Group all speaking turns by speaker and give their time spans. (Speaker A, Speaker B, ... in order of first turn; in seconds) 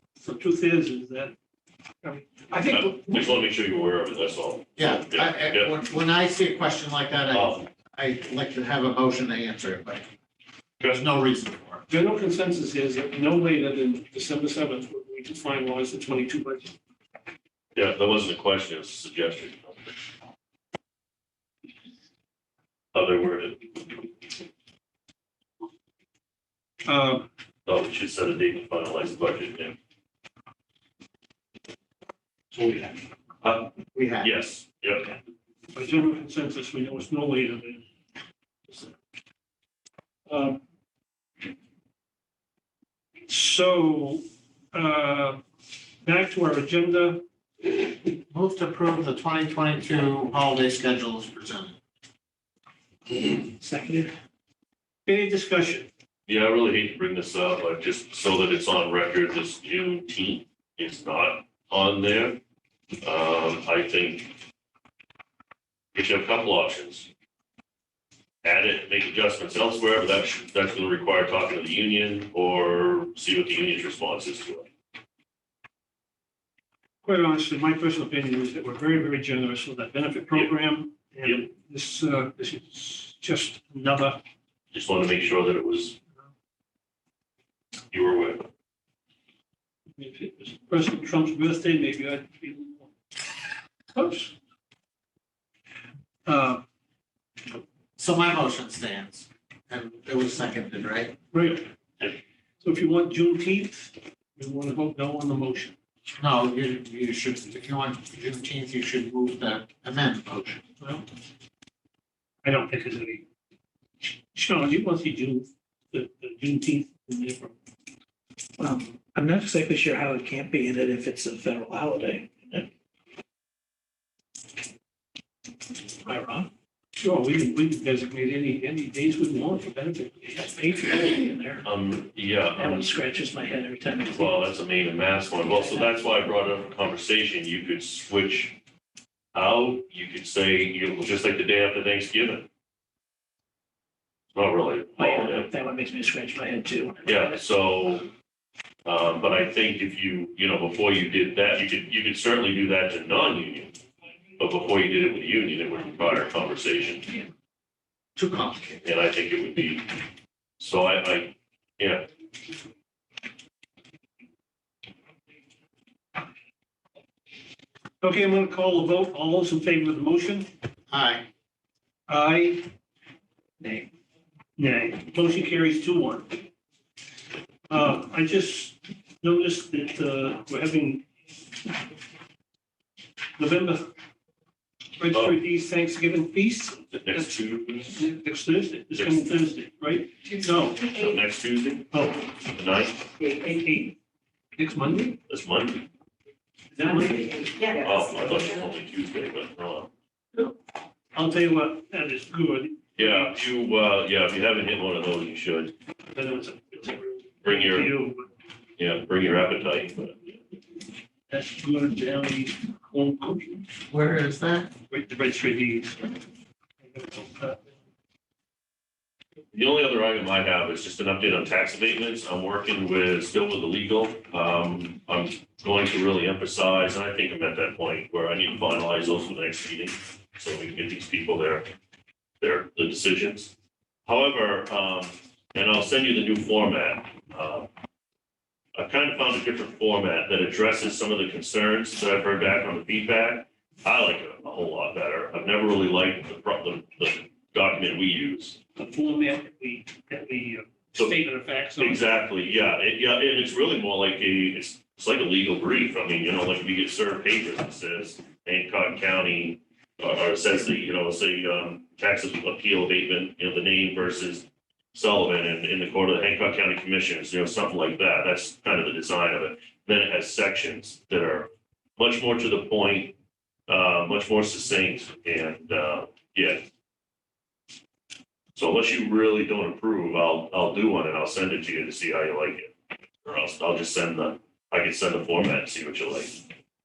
Speaker A: 0.2-1.3, 2.0-3.3, 11.9-16.7, 26.8-27.3, 35.7-37.8, 40.3-40.6, 43.3-45.4, 46.0-47.2, 55.0-55.9, 77.0-84.2, 90.0-92.9, 93.9-94.3, 96.2-96.6, 101.3-101.7, 102.6-105.8, 112.4-113.2, 114.3-117.5, 127.0-130.7, 168.0-170.5, 172.1-172.7, 174.6-176.4, 177.7-181.0, 183.4-183.9, 185.0-187.3, 187.9-191.0, 191.9-192.2, 193.2-193.9, 194.6-195.2, 196.7-197.7, 201.1-203.3, 206.1-208.3, 211.3-213.6, 214.9-216.1, 216.8-217.7, 248.8-252.0
Speaker B: 2.7-5.7, 7.3-7.6, 17.7-19.9, 22.9-23.9, 27.6-29.8, 33.4-35.1, 56.3-62.4, 63.0-64.3, 65.9-67.1, 68.4-74.7, 84.7-86.0, 87.9-88.5, 131.6-132.9, 134.1-138.6, 139.3-142.5, 144.3-145.5, 147.0-148.1, 148.8-153.7, 154.4-157.2, 158.8-159.9, 160.6-162.1, 185.1-185.4, 186.9-188.0, 188.9-189.2, 190.9-193.1, 195.3-195.8, 197.7-199.9, 202.9-205.7, 207.4-207.9, 208.8-210.2, 219.5-231.7, 232.4-233.5, 234.1-237.7, 238.7-248.6, 250.9-251.2, 251.8-273.1, 273.7-276.6, 278.5-282.7, 283.2-286.4
Speaker C: 4.8-10.0, 10.8-11.8, 33.9-34.3, 48.3-51.7, 98.0-101.1, 106.2-110.6, 158.2-158.8, 170.9-171.2, 213.9-214.7
Speaker D: 53.5-54.1, 118.6-122.7, 126.0-126.5, 130.5-131.6, 132.6-134.3, 145.0-147.4